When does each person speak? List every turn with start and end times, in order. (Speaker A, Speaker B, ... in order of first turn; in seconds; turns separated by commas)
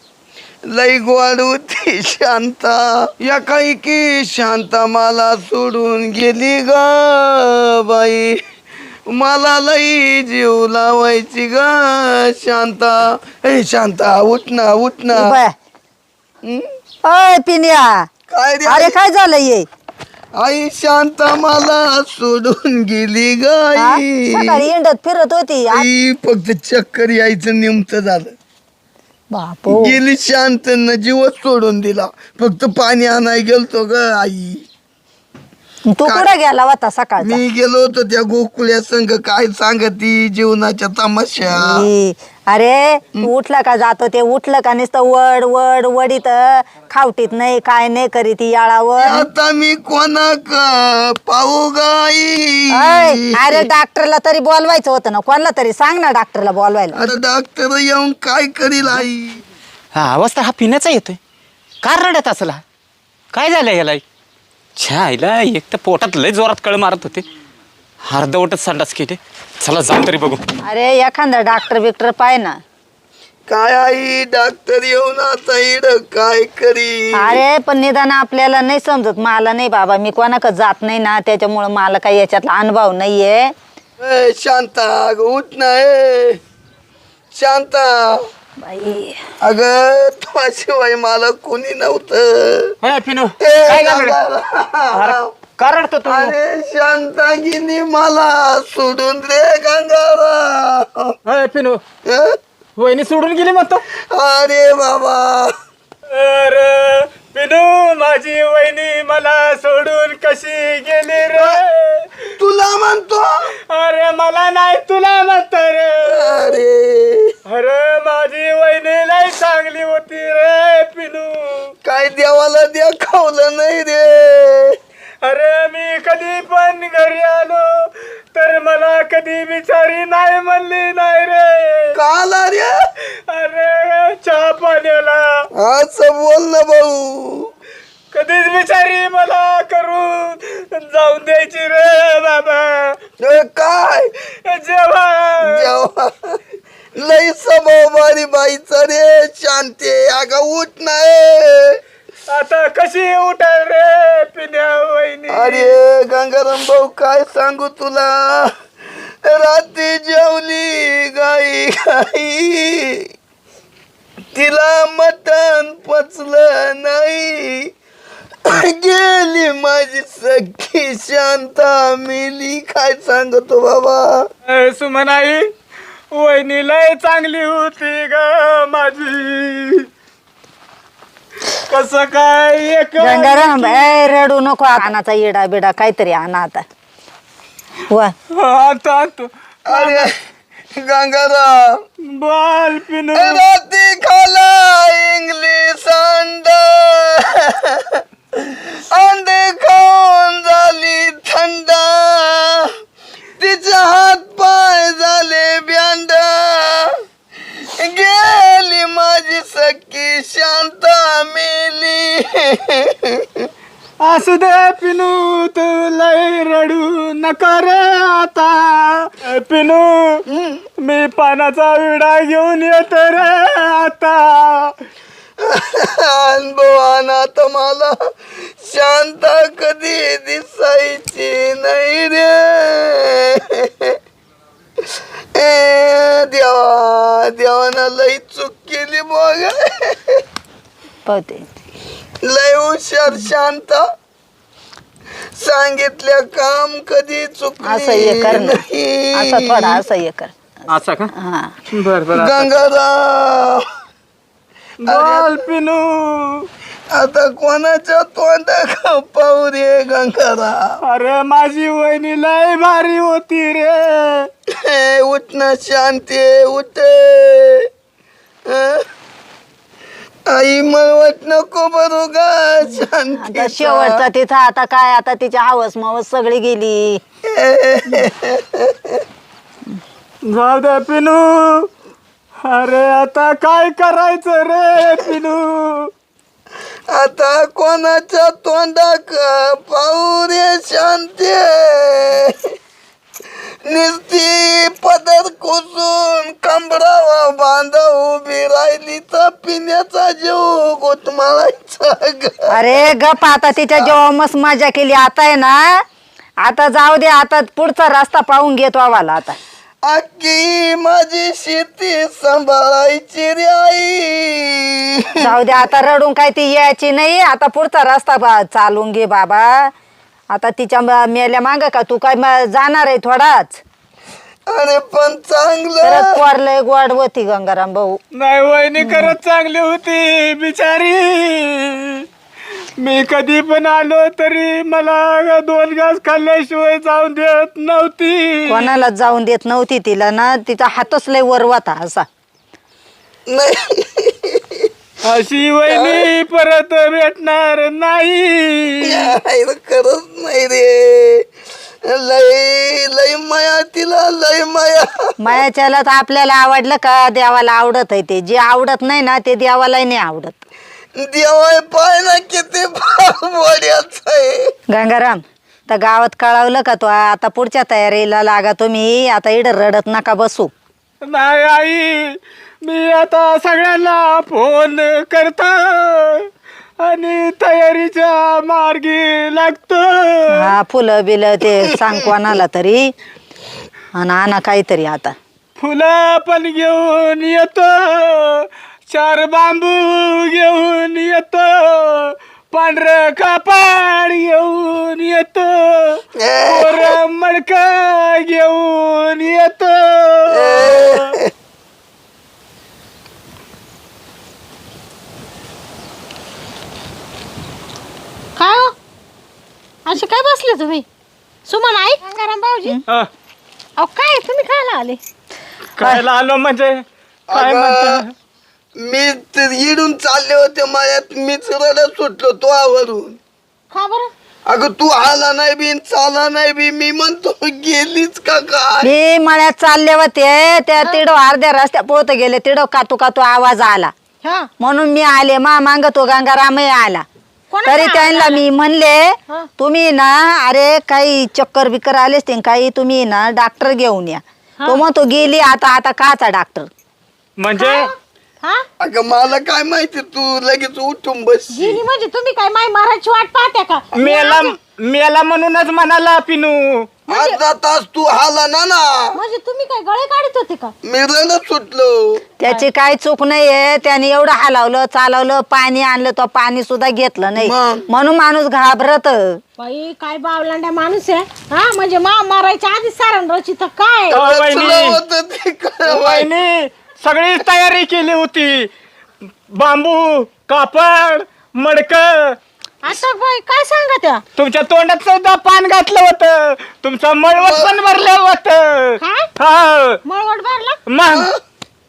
Speaker A: 0.7-8.4, Speaker A: 9.1-15.3, Speaker B: 15.1-15.5, Speaker B: 17.0-18.0, Speaker A: 18.3-18.9, Speaker B: 18.7-19.7, Speaker A: 20.3-24.6, Speaker B: 23.8-25.9, Speaker A: 25.7-28.3, Speaker B: 29.3-29.9, Speaker A: 29.7-34.6, Speaker B: 35.9-37.4, Speaker A: 37.2-41.8, Speaker B: 41.5-49.3, Speaker A: 49.0-53.6, Speaker B: 52.7-57.1, Speaker A: 56.9-59.4, Speaker C: 59.9-61.2, Speaker C: 61.8-62.6, Speaker C: 63.3-64.0, Speaker C: 64.8-67.2, Speaker C: 68.0-70.4, Speaker B: 70.6-72.6, Speaker A: 73.5-77.4, Speaker B: 77.2-83.5, Speaker A: 84.0-86.4, Speaker A: 87.3-88.2, Speaker B: 88.6-89.2, Speaker A: 89.4-92.7, Speaker C: 92.8-94.2, Speaker A: 93.4-95.3, Speaker C: 94.9-96.3, Speaker A: 96.0-101.1, Speaker C: 101.2-101.8, Speaker A: 102.0-102.3, Speaker C: 102.8-103.8, Speaker A: 104.1-105.5, Speaker C: 106.1-112.1, Speaker A: 112.4-113.3, Speaker C: 113.7-116.6, Speaker A: 116.0-117.3, Speaker C: 117.5-121.7, Speaker A: 121.8-124.8, Speaker C: 125.2-131.9, Speaker A: 131.9-132.8, Speaker C: 133.3-135.2, Speaker A: 135.6-137.5, Speaker C: 138.1-143.0, Speaker A: 143.2-144.1, Speaker C: 144.4-145.7, Speaker A: 145.4-146.4, Speaker A: 146.9-151.8, Speaker C: 152.3-155.8, Speaker A: 155.3-158.5, Speaker A: 159.2-163.0, Speaker A: 164.3-167.7, Speaker A: 168.4-174.2, Speaker C: 174.4-175.5, Speaker C: 176.1-179.9, Speaker C: 181.7-184.2, Speaker B: 183.0-186.6, Speaker C: 188.3-190.1, Speaker A: 189.7-190.1, Speaker A: 190.7-191.8, Speaker C: 192.1-193.4, Speaker A: 193.1-202.6, Speaker A: 203.4-206.9, Speaker A: 207.8-213.2, Speaker C: 214.0-220.2, Speaker C: 220.8-224.7, Speaker A: 225.4-227.9, Speaker A: 228.6-233.9, Speaker A: 235.3-240.2, Speaker B: 241.1-241.4, Speaker A: 242.2-243.8, Speaker A: 245.4-249.8, Speaker B: 247.6-248.6, Speaker B: 249.1-250.3, Speaker C: 250.7-251.1, Speaker B: 251.1-251.5, Speaker C: 251.7-252.6, Speaker A: 252.1-253.6, Speaker C: 254.8-256.5, Speaker A: 254.8-255.4, Speaker A: 256.9-260.8, Speaker C: 260.8-264.3, Speaker A: 264.6-267.6, Speaker A: 268.5-268.8, Speaker A: 270.3-274.0, Speaker B: 273.2-277.0, Speaker A: 277.3-278.9, Speaker C: 280.2-281.7, Speaker C: 282.4-285.9, Speaker A: 286.9-292.3, Speaker A: 293.6-302.9, Speaker B: 302.5-305.8, Speaker B: 306.4-309.4, Speaker A: 309.8-315.4, Speaker B: 315.2-319.7, Speaker B: 320.3-323.6, Speaker A: 324.5-326.1, Speaker B: 325.8-328.0, Speaker C: 328.1-332.0, Speaker B: 328.8-329.1, Speaker C: 332.8-338.7, Speaker B: 338.5-342.0, Speaker A: 343.3-344.7, Speaker C: 345.0-349.1, Speaker A: 345.7-346.1, Speaker A: 348.8-351.2, Speaker A: 351.8-355.4, Speaker B: 355.2-360.4, Speaker A: 360.9-364.5, Speaker B: 364.7-370.5, Speaker C: 371.1-376.3, Speaker C: 376.8-380.5, Speaker B: 380.3-382.9, Speaker B: 383.9-385.1, Speaker C: 385.6-401.1, Speaker A: 396.2-397.0, Speaker A: 400.3-401.3, Speaker D: 408.4-408.7, Speaker D: 409.9-410.8, Speaker D: 411.4-412.8, Speaker D: 413.8-415.0, Speaker C: 415.8-418.1, Speaker A: 417.3-418.0, Speaker A: 418.8-423.2, Speaker D: 423.7-424.1, Speaker A: 424.4-428.9, Speaker B: 428.8-433.9, Speaker D: 434.2-434.5, Speaker B: 434.6-437.0, Speaker D: 437.5-438.4, Speaker B: 437.6-446.7, Speaker C: 447.4-447.9, Speaker D: 447.6-448.6, Speaker A: 448.8-451.8, Speaker D: 451.5-454.5, Speaker C: 453.9-456.9, Speaker A: 457.1-459.1, Speaker D: 457.1-457.4, Speaker D: 459.1-460.7, Speaker A: 460.8-462.2, Speaker B: 462.4-469.4, Speaker A: 467.4-467.8, Speaker D: 469.6-474.2, Speaker C: 474.1-475.0, Speaker A: 474.1-476.3, Speaker C: 475.8-478.7, Speaker C: 479.5-482.4, Speaker D: 482.8-484.2, Speaker C: 484.4-490.0, Speaker A: 487.4-487.7, Speaker D: 489.0-489.3, Speaker D: 490.0-490.8, Speaker C: 490.9-491.3, Speaker A: 491.1-491.4